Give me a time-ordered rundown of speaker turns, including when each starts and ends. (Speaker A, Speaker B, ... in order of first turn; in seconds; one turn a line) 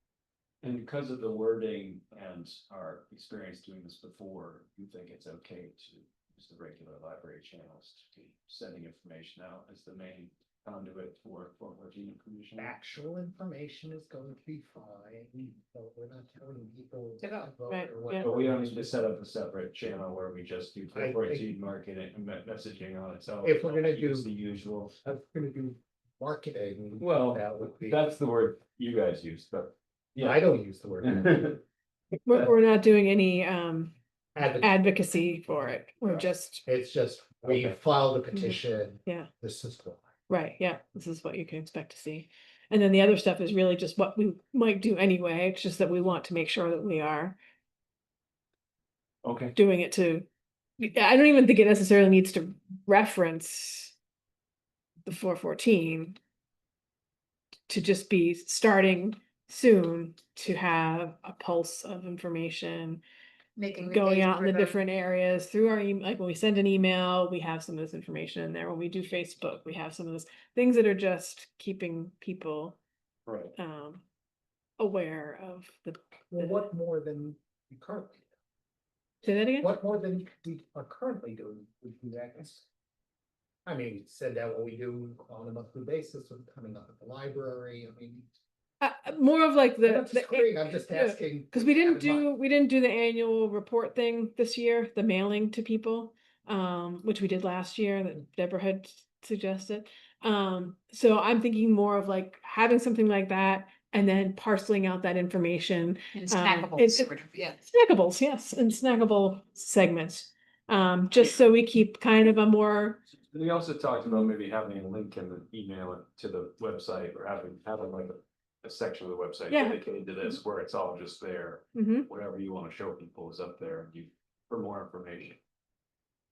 Speaker A: 0.6-12.7
Speaker B: 12.6-19.0
Speaker C: 17.7-18.3
Speaker A: 18.2-24.9
Speaker B: 20.9-21.5
Speaker B: 23.4-24.3
Speaker B: 25.0-28.0
Speaker A: 27.0-30.5
Speaker B: 30.2-31.6
Speaker A: 31.0-31.6
Speaker C: 32.2-33.9
Speaker B: 34.4-34.8
Speaker C: 34.6-36.6
Speaker B: 36.1-40.0
Speaker A: 37.4-37.8
Speaker C: 38.3-39.3
Speaker C: 40.3-47.4
Speaker A: 49.2-49.5
Speaker C: 49.5-50.2
Speaker C: 50.8-53.9
Speaker C: 55.0-56.2
Speaker C: 57.7-63.0
Speaker D: 63.6-64.8
Speaker C: 63.8-72.8
Speaker A: 73.3-73.5
Speaker C: 73.5-74.0
Speaker C: 74.8-76.7
Speaker B: 76.3-78.2
Speaker C: 79.2-79.7
Speaker B: 79.6-82.7
Speaker B: 83.7-88.3
Speaker C: 88.8-113.0
Speaker B: 89.8-92.3
Speaker D: 106.1-107.6
Speaker A: 113.2-125.4
Speaker C: 114.0-114.3
Speaker C: 119.5-120.4
Speaker C: 121.7-122.1